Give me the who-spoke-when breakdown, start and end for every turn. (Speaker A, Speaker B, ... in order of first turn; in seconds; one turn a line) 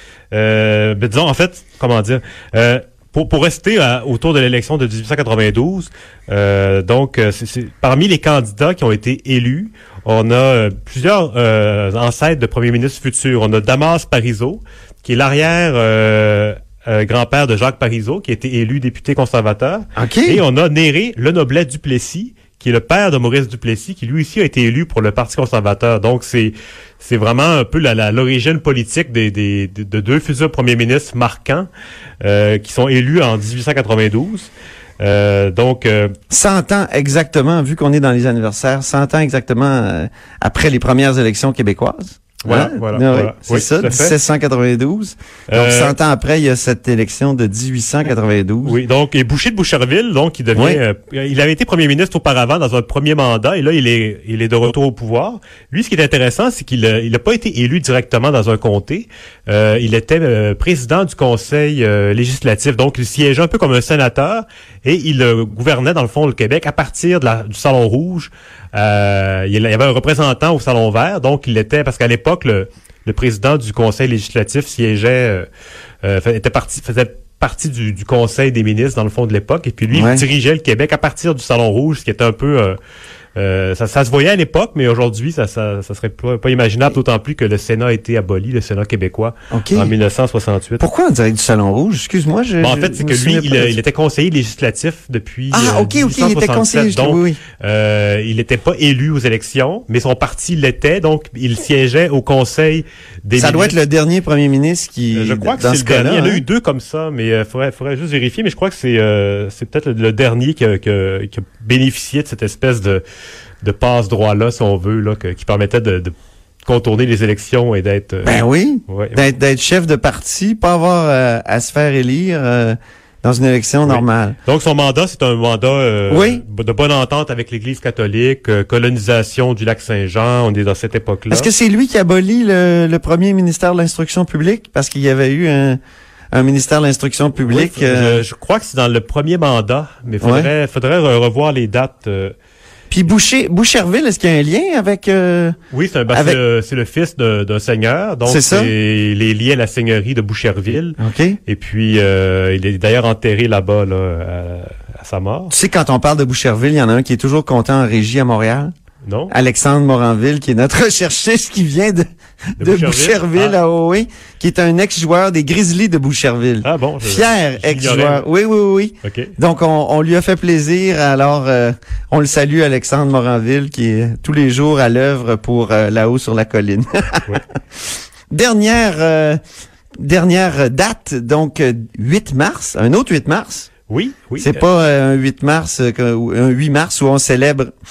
Speaker A: 0.3-31.7
Speaker B: 20.0-20.4
Speaker A: 32.2-36.1
Speaker B: 36.3-48.8
Speaker A: 42.4-44.2
Speaker A: 45.5-46.0
Speaker A: 48.6-75.5
Speaker B: 50.5-50.8
Speaker A: 76.0-82.8
Speaker B: 79.9-80.2
Speaker A: 83.4-90.8
Speaker B: 89.5-89.9
Speaker B: 90.8-93.8
Speaker A: 92.6-103.8
Speaker B: 95.5-97.4
Speaker B: 103.4-106.5
Speaker A: 105.1-113.0
Speaker A: 113.6-116.1
Speaker A: 116.7-119.2
Speaker B: 118.2-124.4
Speaker A: 123.9-131.5
Speaker B: 126.1-126.4
Speaker B: 131.3-135.8
Speaker B: 136.3-138.2
Speaker A: 137.4-142.3
Speaker B: 140.2-140.5
Speaker B: 142.9-145.6
Speaker A: 145.7-155.5
Speaker B: 146.1-146.4
Speaker B: 148.2-148.7
Speaker B: 151.0-151.4
Speaker B: 155.5-158.7
Speaker A: 159.1-159.3
Speaker B: 159.3-162.1
Speaker B: 162.6-177.3
Speaker A: 162.6-163.6
Speaker A: 166.6-168.2
Speaker A: 169.0-169.3
Speaker B: 178.3-179.4
Speaker B: 180.0-183.7
Speaker A: 183.9-184.6
Speaker B: 184.4-187.7